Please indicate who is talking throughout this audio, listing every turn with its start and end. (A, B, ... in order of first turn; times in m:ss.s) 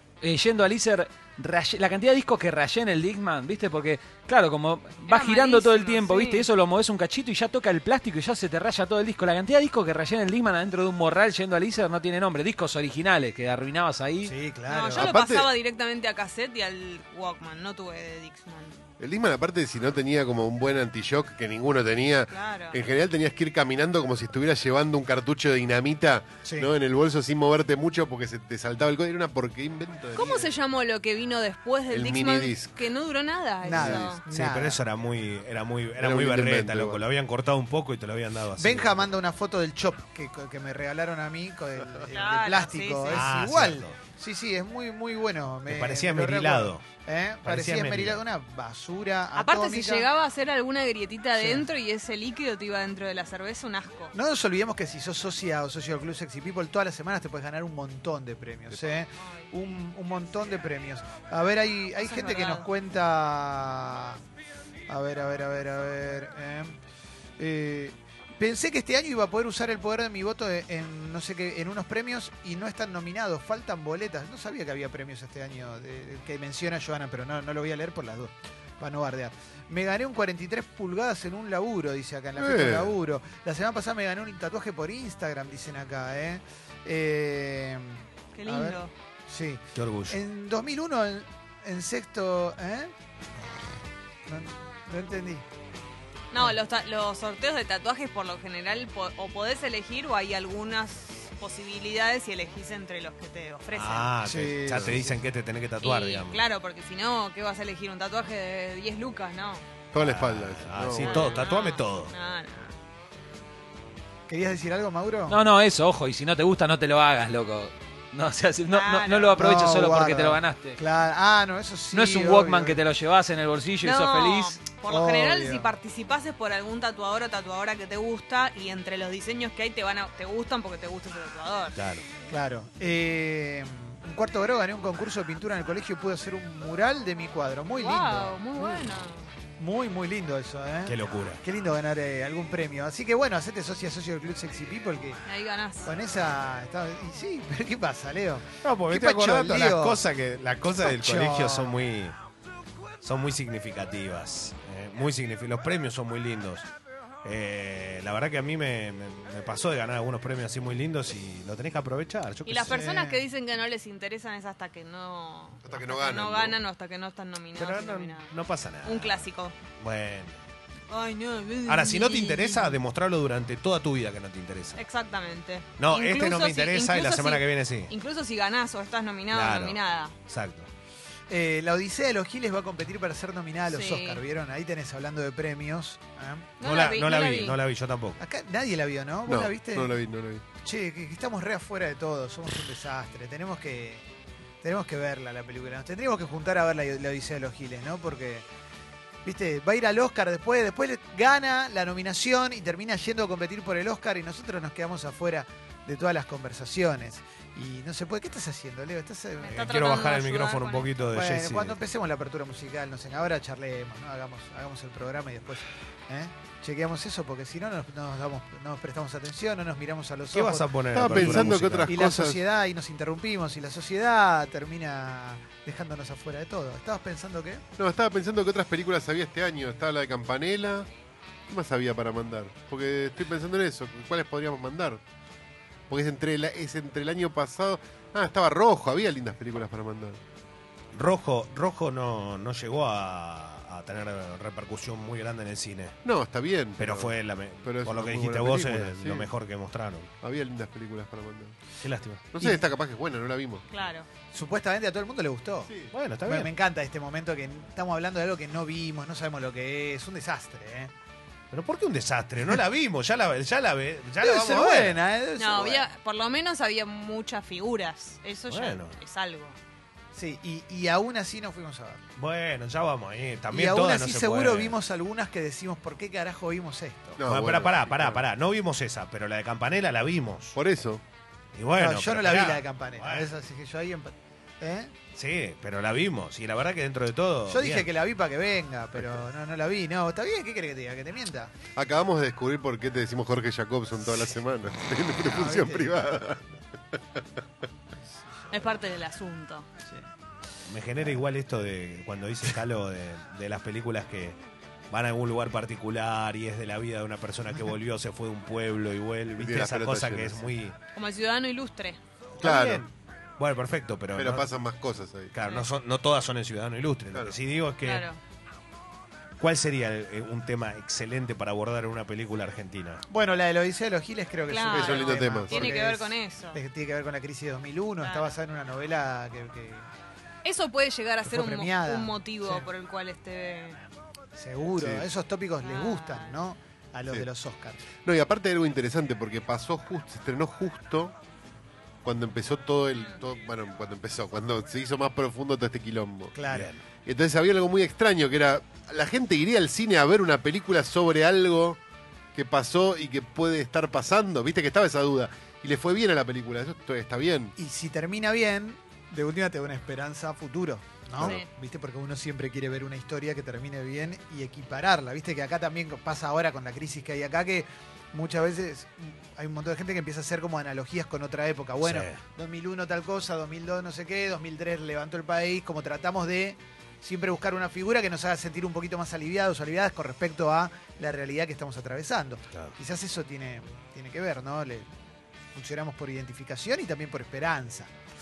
0:00.2-0:14.3 A
0:05.1-0:06.5 B
0:14.2-0:15.1 C
0:14.7-0:18.7 B
0:15.0-0:15.5 D
0:19.0-0:30.5 D
0:22.3-0:22.8 B
0:26.4-0:26.7 C
0:30.1-0:34.2 B
0:31.9-0:32.7 D
0:33.6-0:34.8 C
0:33.7-0:34.2 D
0:34.3-0:39.1 E
0:36.0-0:37.0 D
0:38.6-0:50.1 C
0:42.1-0:43.2 B
0:43.1-0:44.0 E
0:45.7-0:46.8 E
0:47.4-0:48.2 E
0:49.4-0:54.1 B
0:51.4-0:51.7 C
0:54.1-1:04.2 C
0:59.1-0:59.5 B
1:02.0-1:02.7 B
1:04.9-1:06.8 C
1:07.4-1:32.9 C
1:22.4-1:22.9 D
1:28.3-1:28.9 B
1:29.7-1:30.2 E
1:34.3-1:35.4 C
1:36.3-1:44.1 B
1:43.7-1:46.4 E
1:44.2-1:45.2 C
1:45.8-1:49.6 B
1:49.9-1:51.5 D
1:50.0-1:52.1 E
1:50.9-1:52.7 B
1:54.3-1:55.4 C
1:55.3-2:00.8 A
1:58.7-1:59.4 B
1:59.3-2:02.8 C
2:01.9-2:04.5 A
2:03.8-2:11.8 B
2:04.9-2:05.7 C
2:11.8-2:12.0 E
2:12.3-2:18.8 C
2:17.7-2:19.3 B
2:19.6-2:25.2 C
2:20.8-2:21.4 E
2:25.2-2:25.9 B
2:25.8-2:30.0 C
2:28.6-2:32.2 E
2:30.8-2:31.8 C
2:33.0-2:36.7 E
2:37.2-2:42.8 E
2:42.4-2:49.5 B
2:42.7-2:43.2 C
2:45.6-2:46.6 D
2:47.6-2:49.3 E
2:49.8-2:50.4 E
2:50.9-2:52.8 B
2:51.6-2:54.8 E
2:54.8-3:00.1 B
2:55.8-2:57.9 E
2:59.3-3:00.7 E
3:01.3-3:06.5 C
3:03.7-3:04.2 B
3:06.6-3:07.6 B
3:06.6-3:08.2 E
3:08.2-3:09.9 C
3:09.2-3:10.4 D
3:10.6-3:14.0 C
3:14.6-3:18.4 C
3:19.2-3:29.7 C
3:29.4-3:30.9 B
3:29.6-3:31.8 E
3:31.1-3:47.6 C
3:40.3-3:42.0 E
3:40.9-3:42.4 D
3:47.8-3:50.9 D
3:51.5-3:55.0 D
3:55.9-4:00.2 D
4:00.9-4:06.0 E
4:06.0-4:09.3 D
4:06.8-4:10.1 E
4:10.2-4:11.6 D
4:11.8-4:12.2 E
4:12.3-4:13.6 D
4:12.4-4:12.6 C
4:13.7-4:14.1 B
4:14.3-4:15.7 C
4:15.9-4:16.5 E
4:16.2-4:20.9 C
4:21.5-4:25.0 E
4:24.2-4:25.9 C
4:25.4-4:29.6 B
4:28.5-4:29.0 E
4:30.1-4:32.0 C
4:32.2-4:34.7 E
4:33.5-4:37.2 C
4:37.2-4:38.2 D
4:37.2-4:40.6 E
4:40.5-4:41.0 D
4:41.5-4:43.3 E
4:41.8-4:44.9 C
4:45.1-4:47.9 E
4:47.5-4:51.5 C
4:51.8-4:56.5 D
4:55.2-4:56.0 C
4:58.5-4:59.6 B
5:00.7-5:04.4 E
5:04.9-5:10.8 E
5:09.4-5:10.4 D
5:10.9-5:12.0 B
5:12.4-5:14.5 E
5:12.4-5:12.8 D
5:14.2-5:15.3 D
5:15.3-5:18.1 E
5:15.4-5:15.7 B
5:17.8-5:18.2 B
5:19.4-5:23.0 E
5:23.1-5:29.9 C
5:24.5-5:26.6 B
5:24.7-5:25.7 D
5:28.0-5:28.3 B
5:30.4-5:33.8 B
5:31.2-5:32.6 C
5:34.4-5:37.8 C
5:34.8-5:35.1 D
5:35.6-5:36.4 B
5:38.0-5:41.1 D
5:42.0-5:46.3 D
5:42.9-5:43.2 B
5:46.3-5:46.7 C
5:46.5-5:46.8 E
5:47.0-5:51.8 D
5:52.3-5:57.5 D
5:57.6-6:24.9 C
6:01.2-6:01.5 B
6:11.8-6:12.2 E
6:25.5-6:27.9 C